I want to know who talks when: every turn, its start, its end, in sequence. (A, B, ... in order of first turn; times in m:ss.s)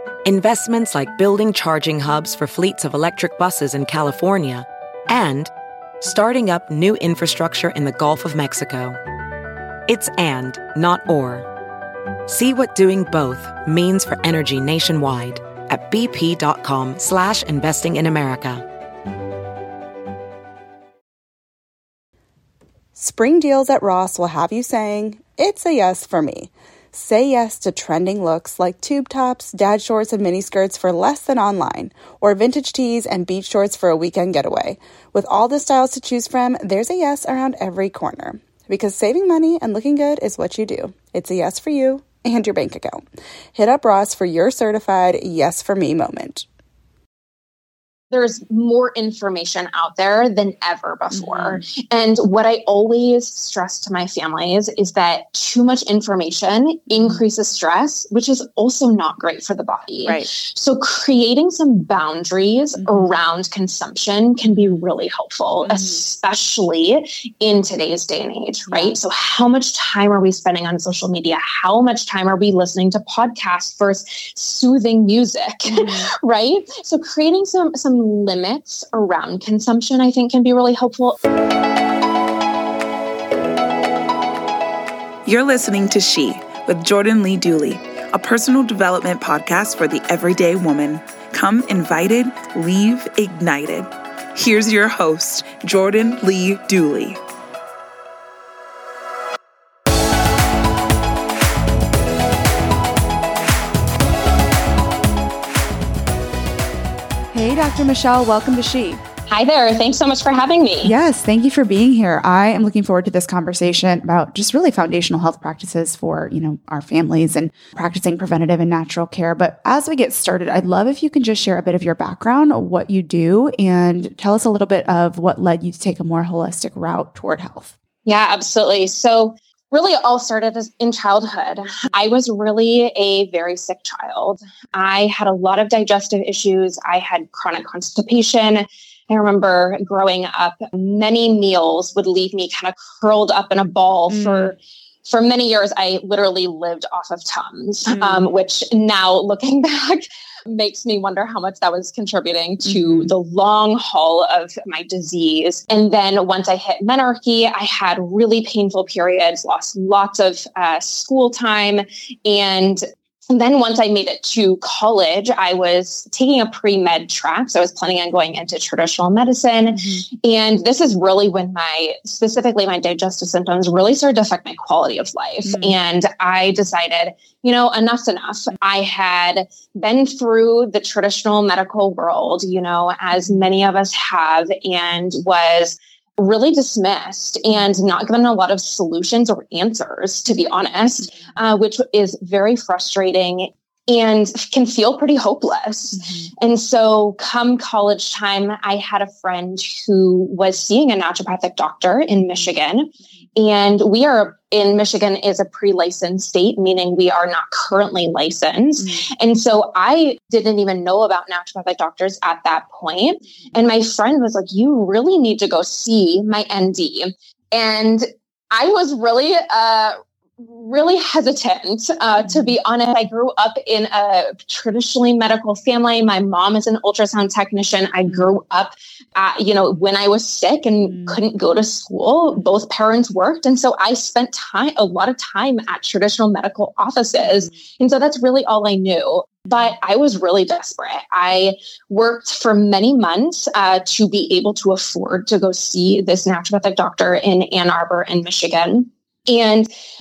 0:00.2-0:05.5 A
0:06.0-0:09.0 A
0:09.9-0:11.5 A
0:12.3-0:18.6 A
0:23.0-0:46.4 B
0:48.1-1:21.2 C
0:51.1-0:51.6 B
0:56.9-0:57.2 B
1:00.0-1:00.3 B
1:02.8-1:03.2 B
1:04.4-1:04.8 B
1:05.6-1:06.0 B
1:08.7-1:09.0 B
1:15.6-1:16.1 B
1:25.2-1:37.2 D
1:47.3-1:49.0 B
1:49.3-1:50.9 C
1:50.8-2:07.7 B
2:08.0-4:09.7 C
2:24.1-2:24.5 B
2:27.9-2:28.3 B
2:32.6-2:33.1 B
2:49.7-2:50.0 B
2:55.4-2:55.8 B
3:03.1-3:03.5 B
3:15.9-3:16.3 B
3:28.8-3:29.0 B
3:42.2-3:42.6 B
3:50.8-3:51.2 B
3:57.2-3:57.5 B